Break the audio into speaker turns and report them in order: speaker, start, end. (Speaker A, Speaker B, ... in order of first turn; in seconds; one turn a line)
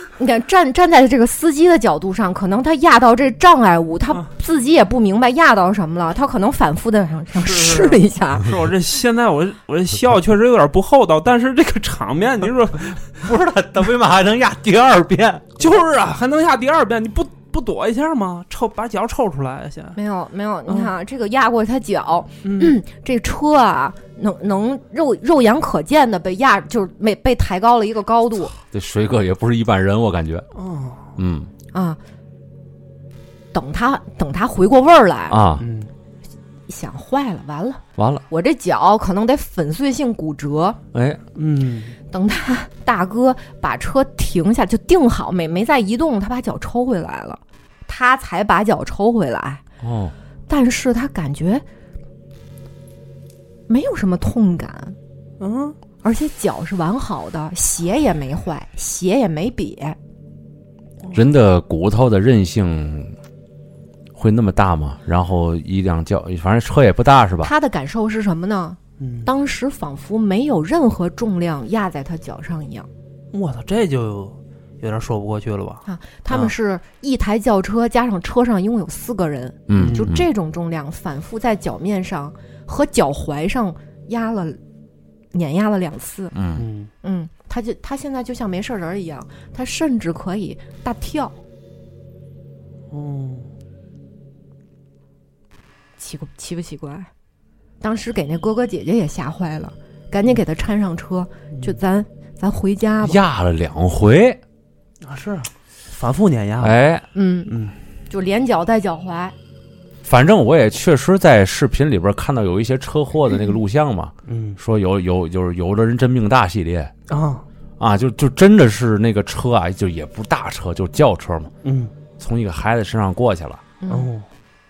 Speaker A: 0.2-8.5
Speaker B: 7.3-13.2
Speaker C: 13.2-15.6
Speaker B: 15.6-20.0
Speaker A: 20.0-28.6
Speaker B: 22.4-22.8
Speaker C: 28.6-30.5
Speaker B: 30.6-31.1
Speaker C: 31.2-31.5
Speaker A: 31.7-32.0
Speaker A: 33.5-35.4
Speaker C: 35.3-35.6
Speaker B: 35.6-35.9
Speaker A: 36.7-40.8
Speaker C: 38.0-38.2
Speaker C: 40.9-41.2
Speaker B: 41.4-42.0
Speaker A: 42.1-49.6
Speaker C: 49.8-50.1
Speaker A: 50.5-51.6
Speaker A: 53.7-55.0
Speaker B: 55.4-55.8
Speaker A: 56.0-60.0
Speaker C: 61.1-63.1
Speaker C: 64.2-67.5
Speaker A: 67.4-72.9
Speaker B: 69.0-69.3
Speaker B: 73.3-76.5
Speaker A: 75.8-84.6
Speaker C: 79.7-80.2
Speaker B: 79.8-80.1
Speaker A: 85.3-86.4
Speaker C: 86.3-86.7
Speaker B: 86.6-86.9
Speaker A: 87.0-91.4
Speaker B: 92.9-93.5
Speaker A: 96.0-97.1
Speaker A: 97.8-103.2
Speaker C: 103.0-104.4
Speaker B: 105.0-106.8
Speaker C: 106.6-107.1
Speaker A: 107.1-107.5
Speaker B: 107.5-107.8
Speaker A: 108.1-109.3
Speaker C: 110.0-116.9
Speaker B: 114.3-114.6
Speaker B: 117.1-117.5
Speaker C: 117.8-121.5
Speaker B: 121.6-121.9
Speaker C: 122.2-123.6
Speaker A: 123.8-124.1
Speaker B: 123.9-124.3